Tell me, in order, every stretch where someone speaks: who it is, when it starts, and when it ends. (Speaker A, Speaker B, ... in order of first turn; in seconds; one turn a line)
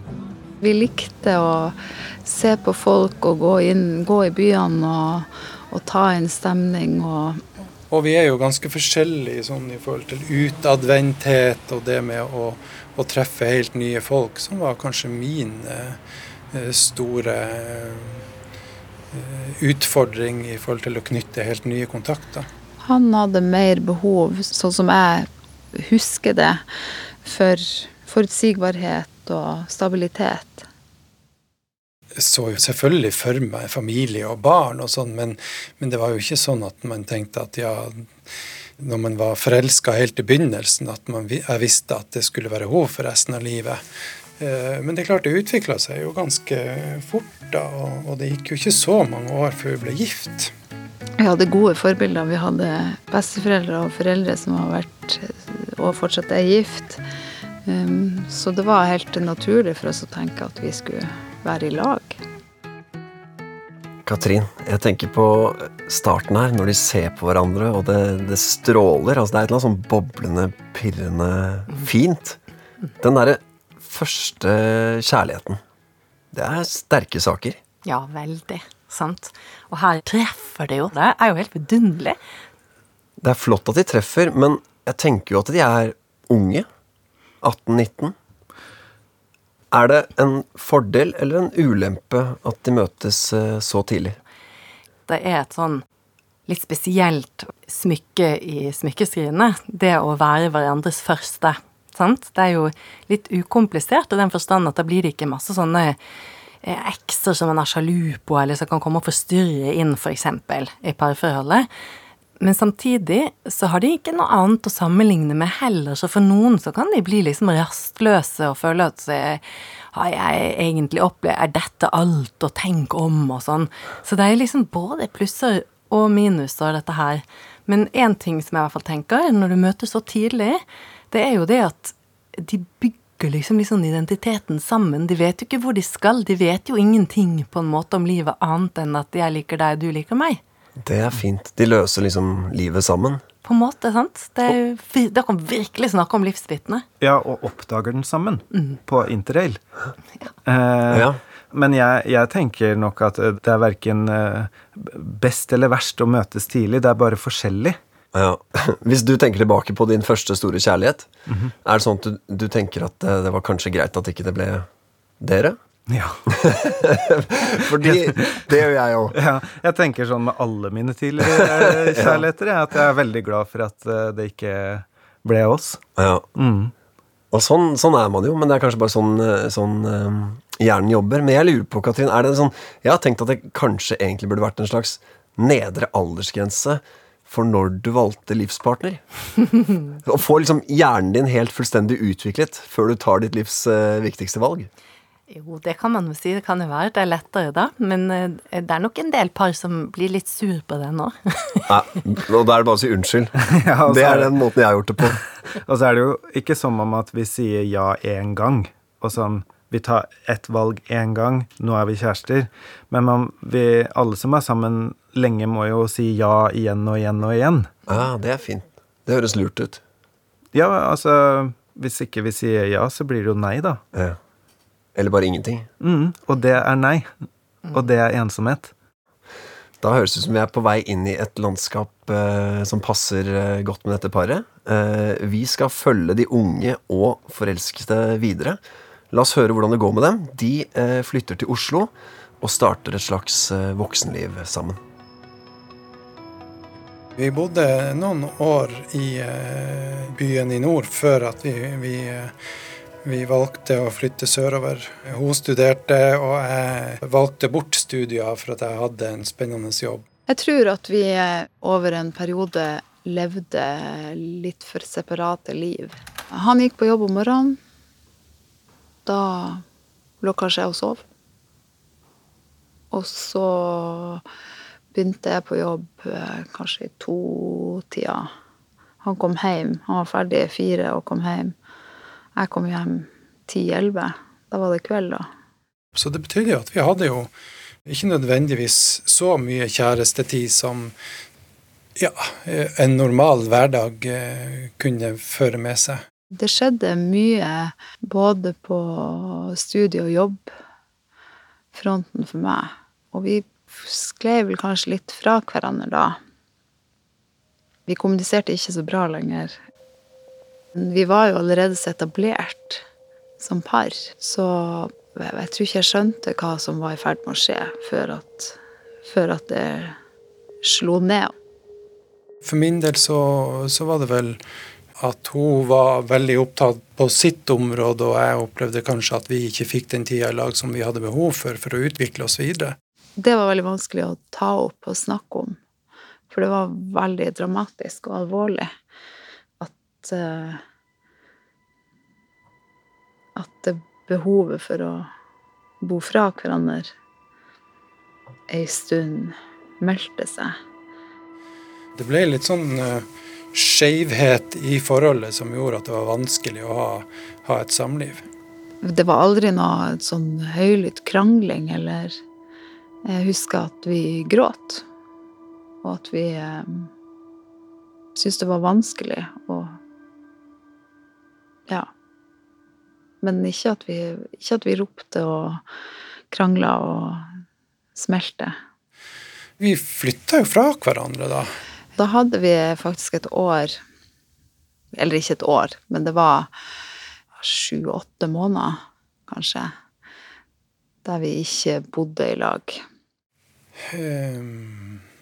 Speaker A: 0.6-7.4
Speaker B: 7.9-16.0
Speaker B: 16.5-18.2
Speaker B: 19.1-22.5
Speaker A: 22.8-26.6
Speaker A: 27.2-30.6
Speaker B: 32.2-38.1
Speaker B: 38.8-43.8
Speaker B: 44.4-50.5
Speaker A: 51.2-57.0
Speaker A: 57.6-62.2
Speaker C: 64.0-72.4
Speaker C: 73.0-75.6
Speaker C: 76.3-77.6
Speaker D: 77.8-82.2
Speaker C: 83.2-86.7
Speaker C: 87.4-88.2
Speaker C: 89.7-94.2
Speaker D: 95.1-95.8
Speaker D: 96.5-106.0
Speaker D: 106.6-111.7
Speaker D: 112.4-140.4
Speaker C: 140.8-143.2
Speaker D: 143.4-146.8
Speaker E: 147.0-149.6
Speaker E: 150.4-157.8
Speaker C: 150.9-151.2
Speaker C: 158.1-161.1
Speaker C: 161.6-164.7
Speaker C: 165.2-165.6
Speaker E: 165.9-166.7
Speaker C: 166.3-169.1
Speaker E: 167.8-168.4
Speaker E: 169.1-175.8
Speaker C: 171.3-172.2
Speaker C: 176.0-176.2
Speaker E: 176.3-176.7
Speaker C: 177.3-189.0
Speaker C: 190.0-194.7
Speaker D: 195.3-201.7
Speaker C: 201.7-205.2
Speaker E: 203.5-204.3
Speaker E: 205.7-217.7
Speaker C: 217.9-219.8
Speaker E: 220.5-223.8
Speaker C: 224.9-225.7
Speaker E: 225.8-227.1
Speaker E: 227.7-228.7
Speaker C: 229.8-238.6
Speaker C: 239.1-244.8
Speaker B: 247.2-252.3
Speaker B: 253.0-260.0
Speaker A: 260.3-267.6
Speaker A: 269.0-269.6
Speaker A: 270.2-271.0
Speaker A: 272.9-274.2
Speaker A: 274.9-278.3
Speaker A: 279.0-281.5
Speaker A: 282.4-285.3
Speaker B: 285.9-287.3
Speaker B: 287.9-290.9
Speaker B: 291.9-296.0
Speaker A: 296.3-300.5
Speaker A: 301.7-306.2
Speaker A: 307.9-309.6
Speaker A: 310.7-312.8
Speaker A: 313.4-320.0
Speaker A: 320.6-321.3
Speaker B: 322.4-324.4
Speaker B: 325.0-332.7
Speaker A: 333.2-335.6
Speaker A: 336.3-338.7
Speaker A: 339.6-340.6
Speaker A: 343.4-345.1
Speaker A: 345.8-346.9
Speaker A: 348.5-350.6
Speaker B: 351.9-358.2
Speaker A: 358.8-362.2
Speaker A: 363.0-364.8
Speaker A: 365.8-366.9
Speaker A: 368.1-369.8
Speaker A: 373.2-375.6
Speaker A: 376.3-377.2
Speaker A: 377.9-378.6
Speaker B: 379.6-381.5
Speaker A: 381.9-383.8
Speaker A: 384.9-386.5
Speaker A: 387.4-389.7
Speaker A: 391.0-392.8
Speaker B: 393.9-395.0